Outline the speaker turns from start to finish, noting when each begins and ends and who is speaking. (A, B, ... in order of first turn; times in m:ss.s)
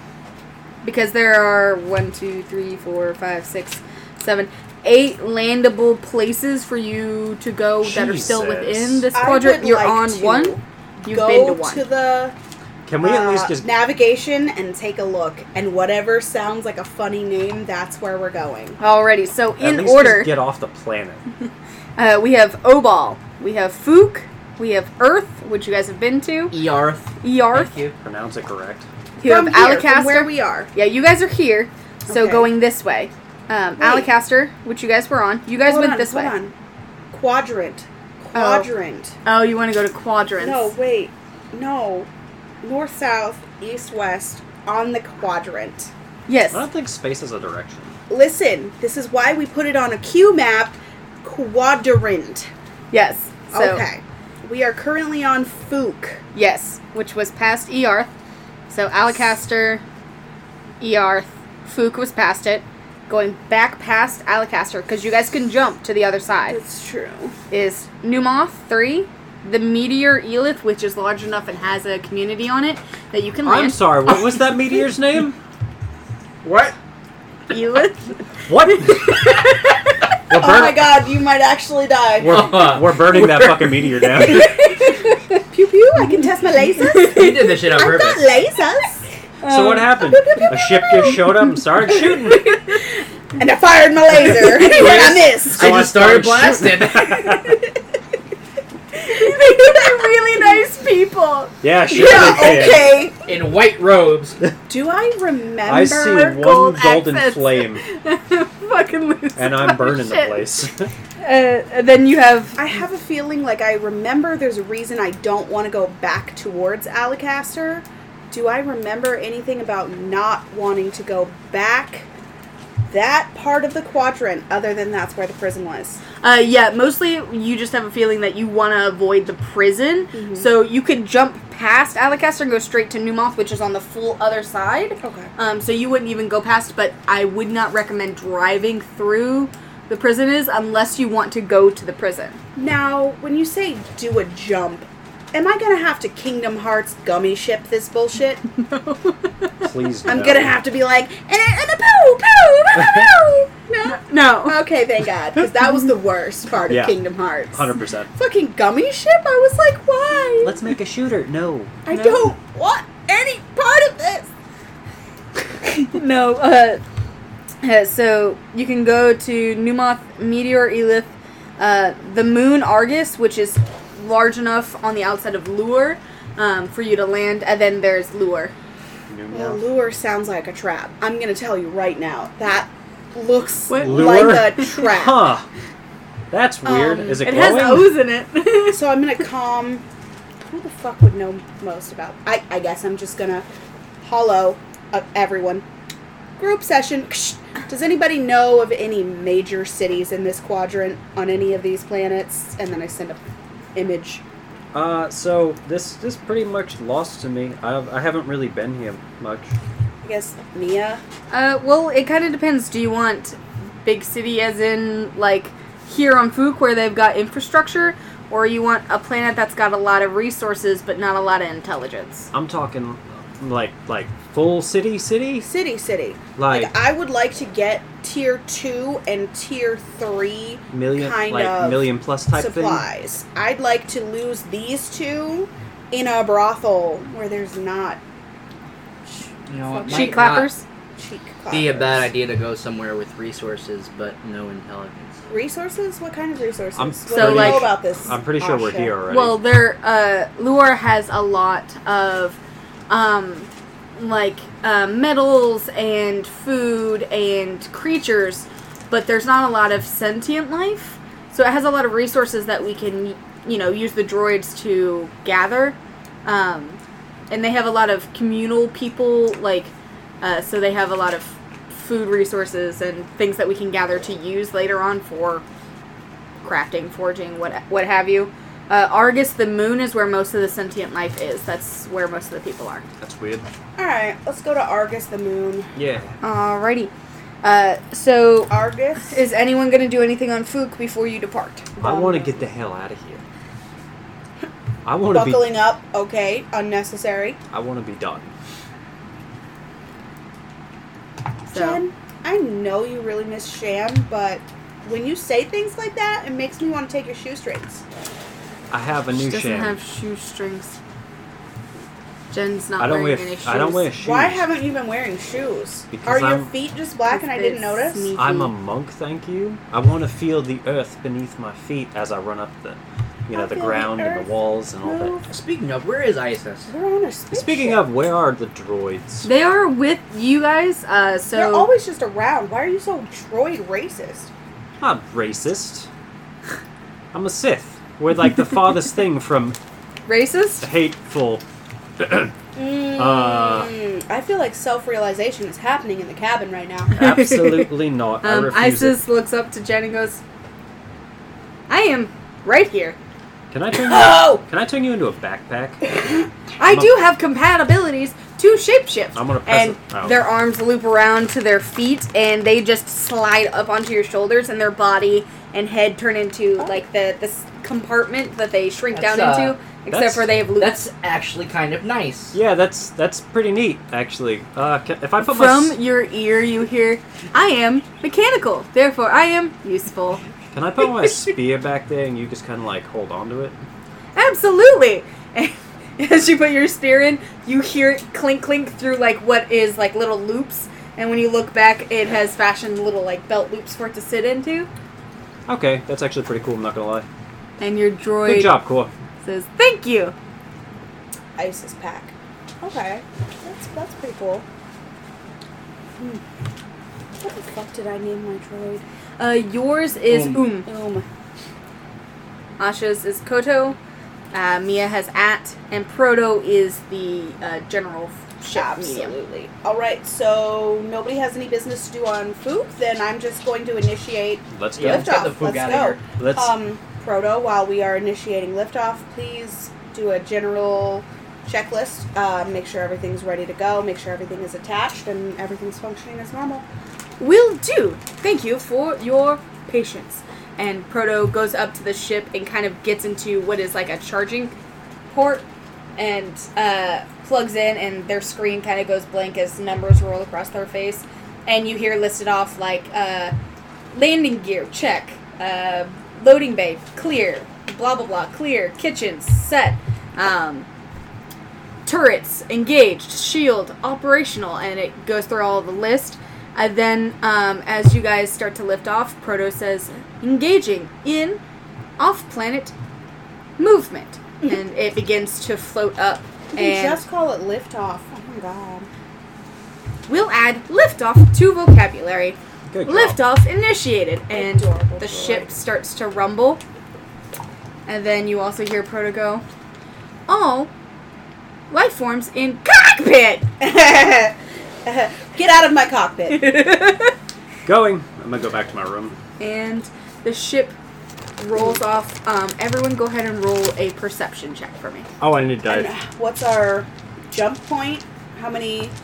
0:00.8-0:11.8 A
0:07.8-0:09.1 B
0:09.1-0:12.3 C
0:12.8-0:13.7 B
0:13.0-0:18.8 C
0:18.8-0:20.3 A
0:19.6-0:21.2 B
0:22.0-0:26.5 A
0:26.5-0:27.9 D
0:27.2-0:27.7 A
0:28.0-0:28.9 B
0:29.2-0:36.3 A
0:29.2-0:30.7 C
0:32.1-0:32.5 C
0:33.8-0:34.1 C
0:35.6-0:36.5 C
0:37.1-0:39.2 C
0:38.3-0:38.7 A
0:39.2-0:40.7 A
0:40.4-0:42.1 C
0:42.6-0:45.9 C
0:46.3-0:46.6 A
0:46.5-0:47.9 B
0:48.1-0:52.5 C
0:52.9-0:53.8 A
0:53.5-0:56.2 C
0:56.3-0:58.1 A
0:58.7-0:59.8 A
1:00.8-1:06.6 A
1:06.5-1:07.3 C
1:07.5-1:13.9 A
1:13.4-1:15.4 B
1:16.4-1:16.7 D
1:17.5-1:20.0 A
1:18.5-1:19.3 B
1:20.3-1:20.9 B
1:20.3-1:22.4 C
1:22.2-1:24.6 B
1:22.3-1:24.0 D
1:24.2-1:25.0 A
1:24.3-1:24.9 C
1:25.5-1:29.0 C
1:26.8-1:27.5 A
1:27.0-1:28.3 D
1:29.4-1:30.4 A
1:29.4-1:32.5 B
1:29.8-1:32.8 C
1:33.4-1:35.8 C
1:34.1-1:37.3 D
1:35.5-1:37.6 B
1:39.0-1:41.5 A
1:39.3-1:39.9 C
1:41.6-1:42.9 B
1:41.9-1:43.2 C
1:41.9-1:44.4 D
1:44.7-1:46.3 C
1:45.6-1:47.8 B
1:46.0-1:50.4 A
1:49.4-1:50.9 B
1:51.2-1:52.6 A
1:52.6-2:02.1 C
2:02.9-2:06.0 C
2:06.2-2:22.4 A
2:10.1-2:10.5 C
2:15.0-2:15.3 C
2:22.6-2:28.4 C
2:28.5-2:29.7 A
2:29.6-2:30.6 B
2:30.0-2:40.6 C
2:32.7-2:33.1 B
2:33.8-2:34.6 A
2:36.7-2:37.0 B
2:37.5-2:38.1 B
2:40.4-2:41.8 B
2:41.8-2:44.3 C
2:41.9-2:42.3 A
2:45.8-2:46.8 A
2:47.6-2:58.5 A
2:59.1-2:59.6 B
2:59.3-3:05.3 C
3:03.7-3:04.5 A
3:03.8-3:05.5 B
3:06.3-3:08.0 B
3:06.6-3:08.8 A
3:08.7-3:09.8 C
3:10.5-3:13.4 C
3:14.0-3:15.6 C
3:16.4-3:23.2 C
3:23.7-3:24.2 C
3:24.7-3:29.5 B
3:30.0-3:31.0 C
3:31.3-3:42.3 A
3:42.3-3:45.5 B
3:45.4-3:58.0 C
3:46.4-3:46.7 B
3:50.7-3:52.8 B
3:59.5-4:00.5 D
3:59.7-4:00.3 C
3:59.8-4:00.6 A
4:01.0-4:02.1 C
4:01.5-4:05.2 D
4:05.3-4:08.9 C
4:06.8-4:09.4 B
4:07.1-4:07.7 A
4:09.1-4:12.4 A
4:12.9-4:26.8 A
4:27.3-4:35.4 A
4:36.4-4:42.8 A
4:43.0-4:43.5 B
4:43.8-4:45.7 C
4:45.7-4:46.1 B
4:46.2-4:46.9 A
4:47.4-4:51.7 A
4:48.5-4:49.2 C
4:51.8-4:52.4 C
4:51.8-4:53.2 B
4:54.8-4:55.5 B
4:55.1-4:57.4 C
4:57.5-4:58.3 B
5:01.5-5:01.8 A
5:01.5-5:07.8 C
5:08.7-5:09.8 B
5:09.2-5:10.8 A
5:12.3-5:13.9 A
5:12.8-5:14.5 B
5:14.0-5:18.1 C
5:15.9-5:16.5 B
5:17.1-5:18.5 A
5:18.1-5:25.1 B
5:23.3-5:24.3 C
5:24.8-5:25.3 C
5:25.3-5:26.7 D
5:26.7-5:27.8 C
5:27.3-5:29.3 B
5:29.2-5:31.7 A
5:31.3-5:34.3 C
5:34.8-5:35.9 B
5:37.1-5:39.6 B
5:40.1-5:40.6 A
5:40.6-5:41.4 B
5:42.0-5:42.3 B
5:42.5-5:46.9 C
5:42.9-5:43.7 B
5:46.9-5:49.0 B
5:47.0-5:50.2 A
5:51.7-5:53.0 A
5:53.5-5:55.8 B
5:53.7-5:54.4 C
5:56.6-6:10.8 A
5:56.6-5:57.0 B
5:59.1-6:00.2 B
6:08.9-6:09.6 D
6:09.9-6:10.3 B
6:10.6-6:12.4 D
6:12.3-6:15.8 B
6:15.2-6:20.2 A
6:20.5-6:23.6 B
6:24.1-6:34.7 A
6:35.5-6:37.1 B
6:37.6-6:38.6 A
6:38.2-6:38.9 B
6:39.2-6:40.1 A
6:41.4-6:44.4 C
6:47.2-6:48.8 C
6:49.2-6:50.7 A
6:50.1-6:50.5 D
6:50.6-6:51.0 C
6:52.6-6:53.8 A
6:54.3-6:59.1 A
6:58.5-7:16.6 C
7:04.5-7:05.3 B
7:04.8-7:06.0 D
7:06.2-7:06.6 B
7:17.2-7:24.5 A
7:25.1-7:25.4 A
7:26.0-7:33.3 A
7:33.9-7:40.7 A
7:41.8-7:51.4 A
7:52.0-7:52.7 A
7:53.6-7:57.0 A
7:56.5-7:58.9 C
8:00.1-8:06.6 A
8:02.7-8:03.2 B
8:04.3-8:05.5 C
8:07.8-8:09.4 A
8:10.3-8:10.7 A
8:11.7-8:13.4 A
8:13.6-8:16.6 C
8:16.3-8:17.1 A
8:17.6-8:19.2 B
8:19.4-8:20.7 A
8:21.4-8:25.1 A
8:25.2-8:25.9 B
8:25.7-8:28.9 C